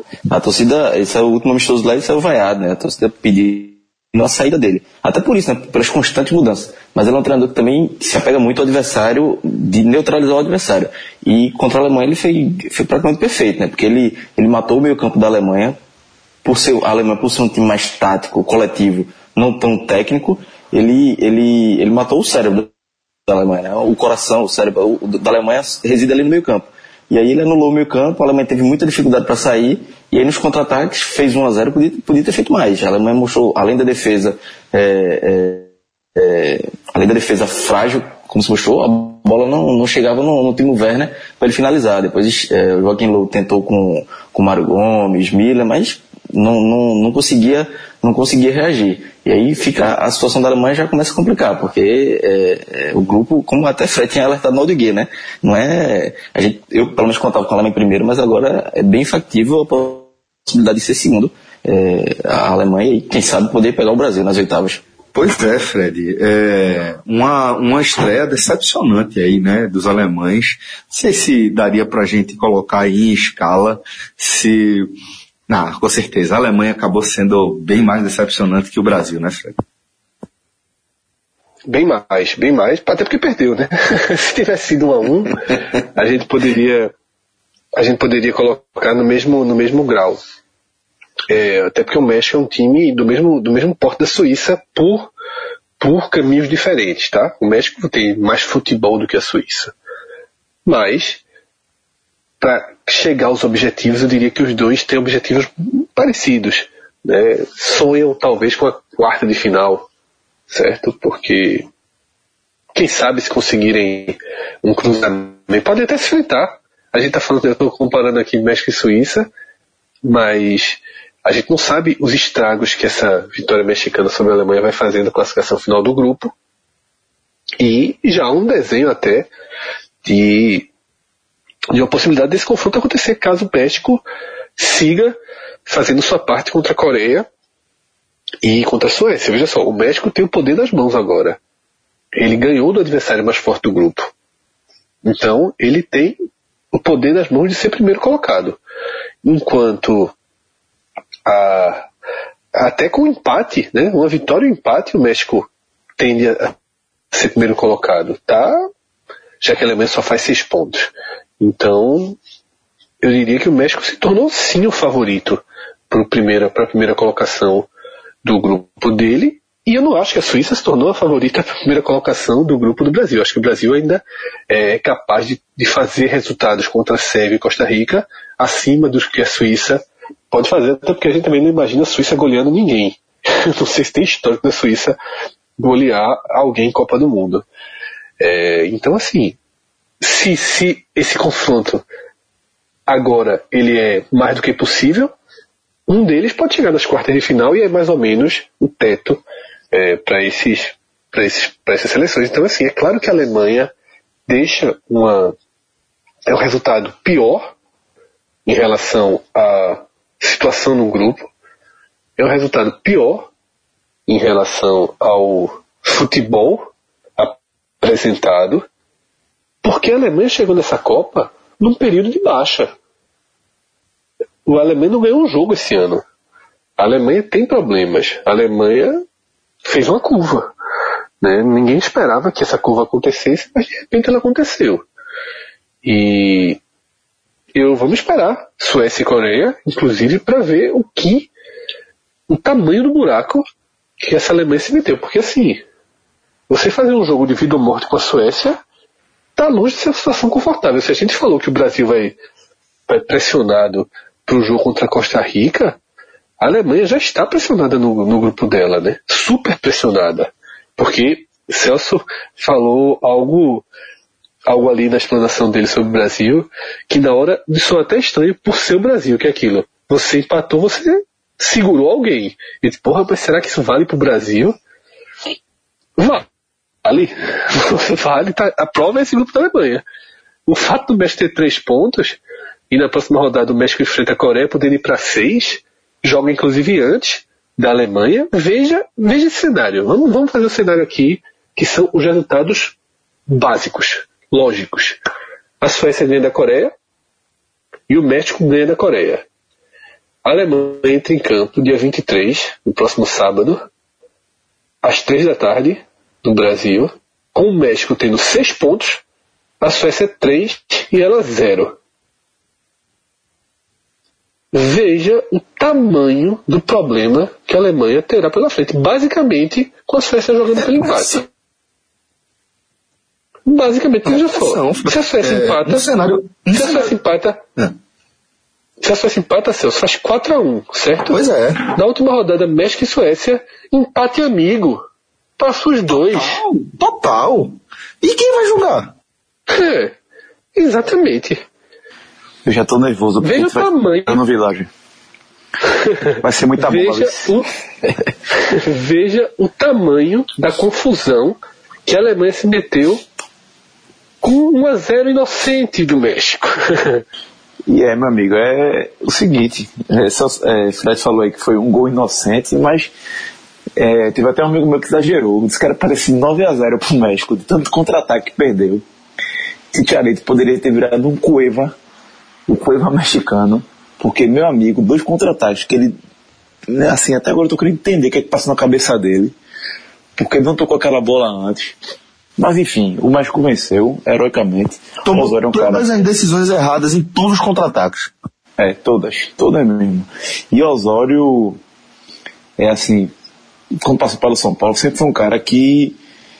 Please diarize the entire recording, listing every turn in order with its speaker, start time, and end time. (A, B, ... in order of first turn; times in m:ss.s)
0:00.3-0:15.8 A
0:16.4-0:22.7 A
0:23.3-1:04.8 A
1:05.1-1:14.9 B
1:15.5-1:19.5 B
1:21.7-1:26.9 C
1:27.7-1:30.2 C
1:31.3-1:35.1 C
1:35.8-1:39.7 C
1:40.6-1:41.2 C
1:42.4-1:49.9 C
1:50.5-1:51.7 C
1:52.7-1:59.3 C
2:00.0-2:06.3 C
2:07.6-2:09.3 C
2:10.0-2:10.7 C
2:11.7-2:14.0 C
2:14.6-2:17.3 C
2:18.4-2:21.4 C
2:22.1-2:24.1 C
2:25.0-2:26.2 C
2:26.7-2:28.6 C
2:29.2-2:30.1 C
2:31.2-2:31.9 C
2:32.6-2:36.5 C
2:37.1-2:38.6 C
2:39.4-2:42.2 C
2:43.0-2:47.7 C
2:48.2-3:05.0 C
3:05.6-3:07.4 C
3:08.2-3:09.4 C
3:10.0-3:11.8 C
3:12.9-3:15.1 C
3:15.9-3:23.7 C
3:24.3-3:25.3 C
3:26.3-3:27.5 C
3:28.4-3:31.3 C
3:32.2-3:33.3 C
3:34.1-3:38.6 C
3:39.6-3:42.7 C
3:44.4-3:46.0 C
3:46.8-3:49.0 C
3:49.6-3:50.5 C
3:51.2-3:54.8 C
3:55.8-3:56.6 C
3:57.5-4:01.3 C
4:02.3-4:03.4 C
4:04.0-4:05.6 C
4:06.5-4:08.6 C
4:09.4-4:12.2 C
4:12.9-4:15.8 C
4:16.4-4:23.6 C
4:24.4-4:34.5 C
4:36.0-4:36.2 C
4:36.8-4:39.8 C
4:40.5-4:52.8 C
4:53.3-4:55.0 C
4:55.6-4:56.7 C
4:57.9-4:59.2 C
5:00.2-5:03.6 C
5:04.8-5:09.0 C
5:09.6-5:11.8 C
5:14.5-5:21.2 C
5:20.5-5:21.2 B
5:23.5-5:25.8 C
5:24.0-5:26.9 B
5:26.5-5:27.4 C
5:28.8-5:31.2 C
5:31.1-5:31.7 B
5:31.7-5:34.8 C
5:35.4-5:36.4 C
5:36.1-5:38.9 B
5:39.5-5:39.9 C
5:40.5-5:41.4 C
5:42.4-5:44.7 D
5:43.2-5:44.2 C
5:45.7-5:47.5 C
5:46.2-5:47.3 D
5:48.3-5:53.0 C
5:54.2-5:57.0 C
5:57.7-6:02.9 D
6:03.8-6:08.8 D
6:09.7-6:11.7 D
6:12.5-6:15.9 D
6:16.7-6:19.3 D
6:20.2-6:21.7 D
6:22.4-6:25.8 D
6:25.0-6:28.1 B
6:28.6-6:31.6 D
6:32.6-6:33.1 D
6:33.8-6:36.0 D